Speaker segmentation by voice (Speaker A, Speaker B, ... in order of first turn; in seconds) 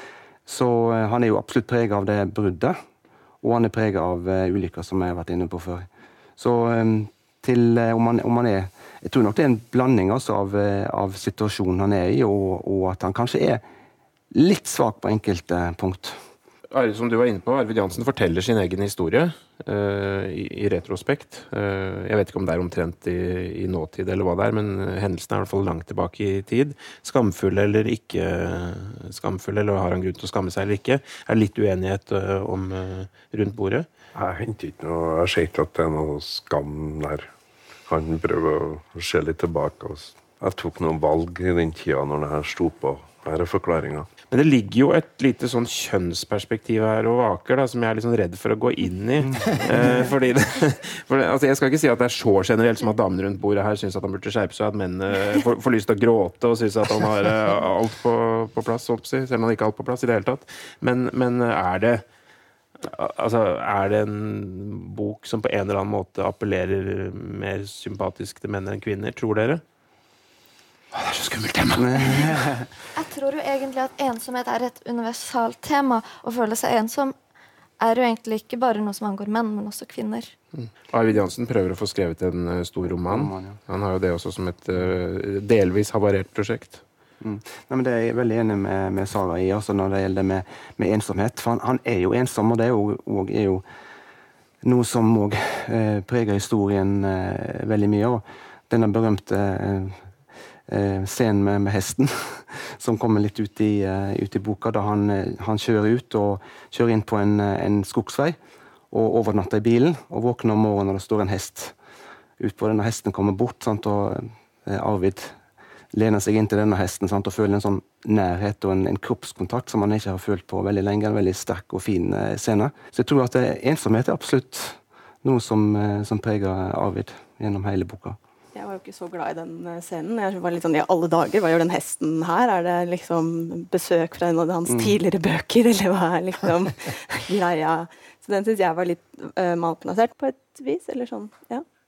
Speaker A: 0.5-2.8, 3.4-13.6, 14.3-16.2, 49.3-50.0, 71.8-72.7, 83.1-83.6, 87.2-93.7, 94.6-100.1, 100.7-108.4, 108.9-111.8, 112.4-115.4, 115.9-128.2, 134.7-135.0
Speaker B: 16.7-33.9, 44.3-62.0, 62.8-69.6, 70.9-72.5, 80.5-86.8
Speaker C: 34.1-37.3, 37.9-44.1
Speaker D: 73.0-77.2, 77.8-80.3
Speaker E: 128.5-141.6